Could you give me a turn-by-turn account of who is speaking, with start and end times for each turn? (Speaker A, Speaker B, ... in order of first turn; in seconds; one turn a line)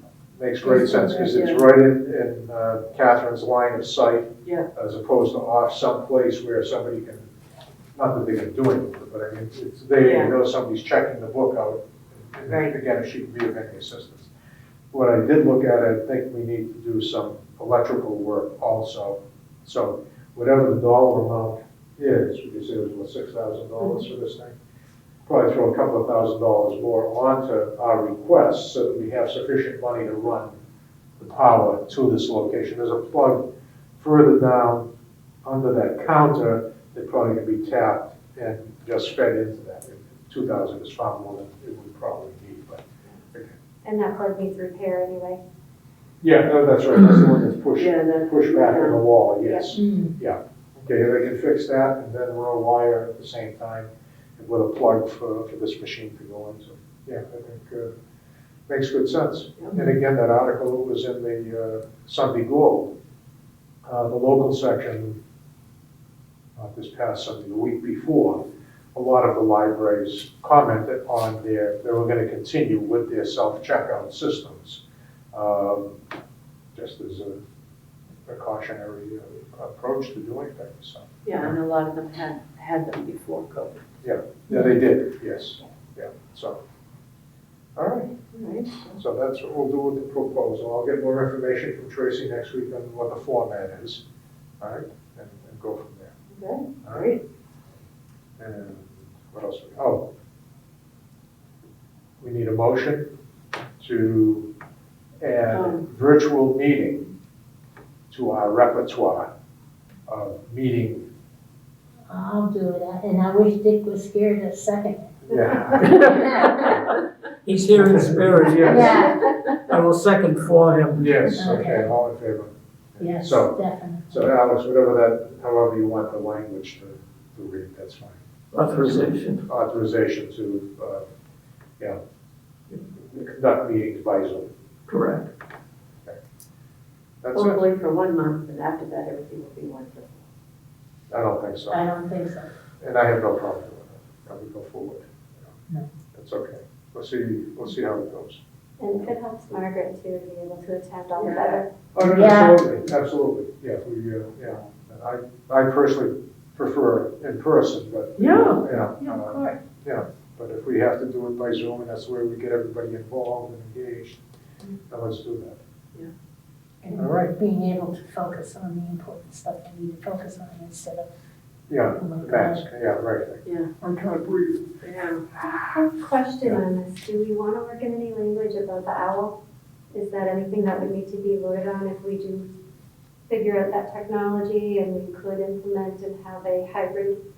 Speaker A: 0.3-7.2
Speaker B: 0.6-1.3
Speaker C: 1.3-1.6
Speaker A: 7.9-14.3
Speaker C: 10.0-10.3
Speaker C: 12.5-12.8
Speaker A: 14.9-24.6
Speaker A: 25.3-30.6
Speaker A: 31.2-33.5
Speaker A: 34.0-34.9
Speaker A: 35.4-43.5
Speaker D: 43.8-45.4
Speaker A: 46.2-57.9
Speaker C: 47.8-49.0
Speaker B: 49.7-50.1
Speaker A: 58.7-62.9
Speaker A: 63.9-65.2
Speaker A: 66.6-74.8
Speaker A: 75.3-76.0
Speaker A: 76.7-77.4
Speaker A: 78.2-81.5
Speaker C: 81.2-83.9
Speaker A: 84.0-86.6
Speaker B: 84.5-84.8
Speaker A: 87.8-88.2
Speaker C: 88.3-89.0
Speaker A: 89.0-94.0
Speaker A: 94.6-96.2
Speaker C: 96.3-97.2
Speaker A: 98.4-100.0
Speaker A: 102.2-103.1
Speaker A: 103.8-104.5
Speaker A: 105.2-107.1
Speaker C: 105.5-105.8
Speaker A: 108.1-109.3
Speaker A: 110.1-111.1
Speaker B: 112.1-116.5
Speaker A: 115.2-115.9
Speaker E: 115.8-116.7
Speaker E: 117.4-119.2
Speaker A: 117.8-119.0
Speaker B: 117.8-119.2
Speaker E: 119.7-121.2
Speaker A: 121.0-128.2
Speaker B: 121.3-121.9
Speaker B: 123.0-124.3
Speaker E: 128.5-129.4
Speaker A: 128.7-131.1
Speaker A: 132.9-134.5
Speaker E: 134.9-135.3
Speaker A: 137.2-137.6
Speaker C: 137.3-140.2
Speaker A: 141.1-141.8
Speaker B: 141.7-142.5
Speaker A: 142.8-145.5
Speaker A: 146.1-148.4
Speaker D: 148.8-151.7
Speaker C: 151.2-151.7
Speaker A: 151.9-164.2
Speaker B: 152.1-152.6
Speaker C: 158.2-159.6
Speaker A: 164.9-165.6
Speaker B: 166.8-171.1
Speaker A: 166.9-167.3
Speaker A: 171.7-174.6
Speaker B: 171.9-172.7
Speaker C: 173.4-173.7
Speaker C: 174.8-175.2
Speaker D: 175.4-179.4
Speaker D: 179.9-182.5
Speaker D: 183.3-187.2